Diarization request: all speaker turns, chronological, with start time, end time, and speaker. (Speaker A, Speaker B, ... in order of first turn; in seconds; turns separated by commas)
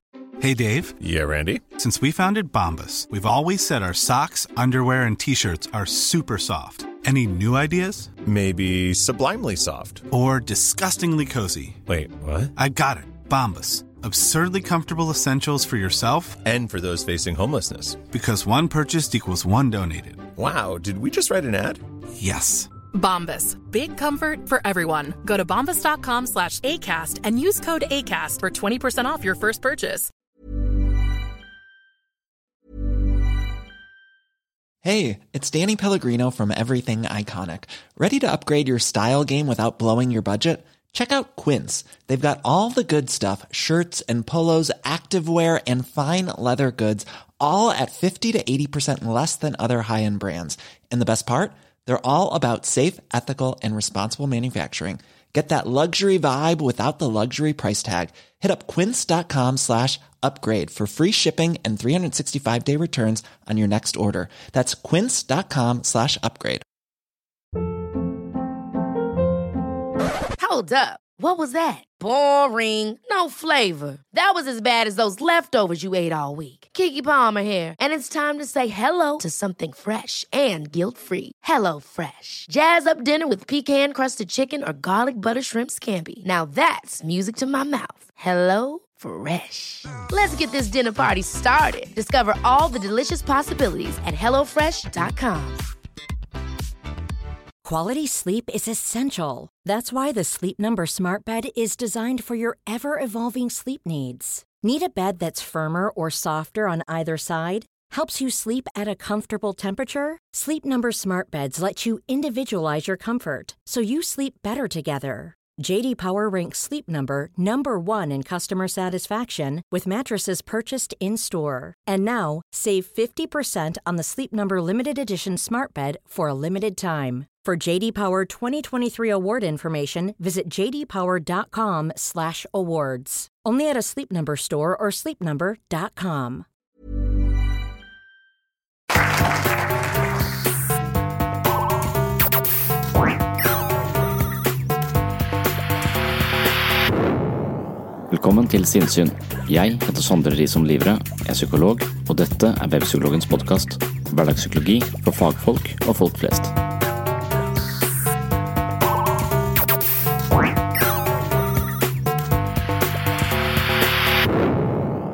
Speaker A: 0.4-0.9, Speaker B: 1.0-1.7, Speaker A: 1.8-8.1, Speaker B: 8.2-10.1, Speaker A: 10.1-11.8, Speaker B: 11.9-12.5, Speaker A: 12.6-16.4, Speaker B: 16.4-18.0, Speaker A: 18.1-20.2, Speaker B: 20.4-21.8, Speaker A: 22.2-22.7, Speaker C: 22.9-30.1, Speaker D: 34.8-66.6, Speaker E: 70.4-95.6, Speaker F: 97.7-136.4, Speaker G: 148.1-156.5